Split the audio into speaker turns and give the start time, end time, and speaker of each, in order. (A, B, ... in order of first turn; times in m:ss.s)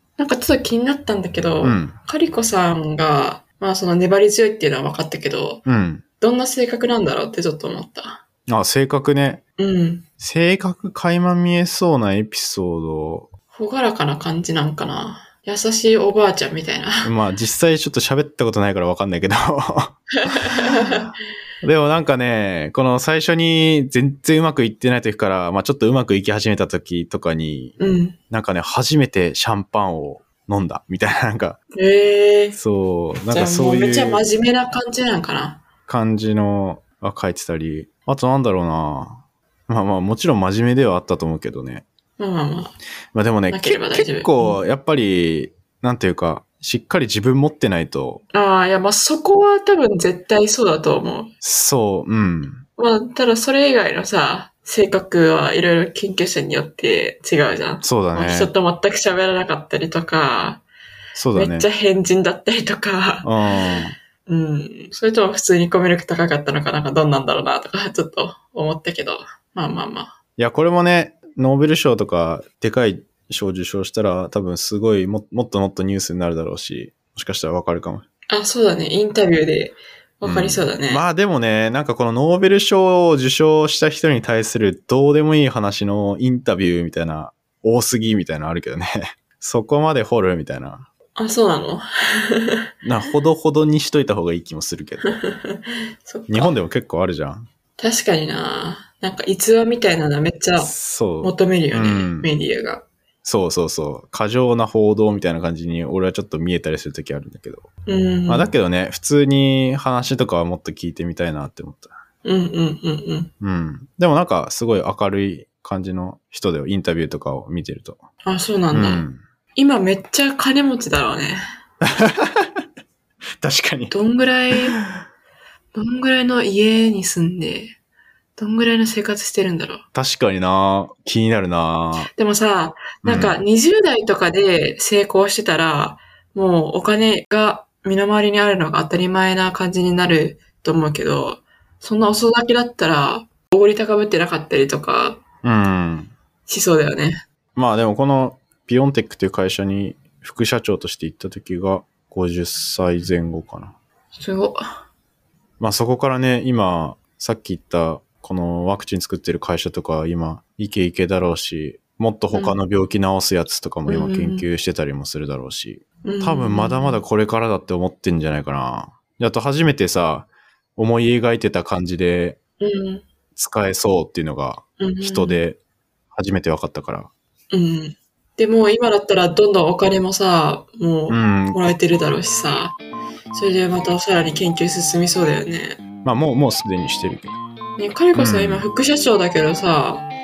0:00.2-0:05.6 A
0:01.6-0:02.0 B
0:05.7-0:06.0 B
0:06.2-0:08.2 A
0:08.5-0:09.4 B
0:09.6-0:10.1 A
0:10.2-0:13.3 B
0:13.5-0:17.1 A
0:17.0-0:21.0 B
0:20.2-0:21.1 A
0:21.6-0:27.8 B
0:27.8-0:28.2 A
0:28.3-0:31.6 B
0:31.8-0:32.6 A
0:32.5-0:34.2 B
0:33.3-0:35.6 A
0:35.9-0:41.9 B
0:42.2-0:42.8 A
0:43.1-0:48.2 B
0:43.5-0:44.6 A
0:48.3-0:51.3 A
0:51.4-0:52.6 B
0:52.8-1:00.6 A
0:57.8-0:58.5 B
1:01.2-1:01.7 B
1:01.3-1:03.4 A
1:03.2-1:04.0 B
1:04.3-1:10.1 A
1:10.4-1:18.0 B
1:18.3-1:21.0 A
1:20.2-1:30.9 B
1:31.2-1:32.7 A
1:32.8-1:35.2 B
1:35.1-1:36.5 A
1:36.3-1:37.5 B
1:37.8-1:42.9 A
1:40.6-1:42.3 B
1:43.2-1:47.7 B
1:47.9-1:48.5 A
1:48.3-1:51.9 B
1:52.2-1:53.3 A
1:53.4-1:58.0 B
1:58.2-2:01.4 A
1:58.7-1:59.2 B
2:01.8-2:02.6 B
2:03.4-2:03.9 B
2:03.9-2:04.8 A
2:05.8-2:07.8 A
2:08.4-2:09.8 A
2:09.9-2:12.1 B
2:12.0-2:25.2 A
2:13.0-2:13.4 B
2:25.4-2:26.1 B
2:26.5-2:27.2 A
2:27.6-2:33.8 B
2:34.2-2:34.6 A
2:35.6-2:52.4 B
2:42.3-2:42.6 A
2:43.9-2:44.5 A
2:46.0-2:47.0 A
2:52.6-2:53.1 A
2:53.4-2:55.6 B
2:54.8-2:55.4 A
2:56.1-2:57.1 B
2:57.5-3:02.8 A
3:01.1-3:01.6 B
3:03.3-3:05.8 A
3:06.0-3:07.4 B
3:07.8-3:10.1 A
3:08.2-3:08.7 B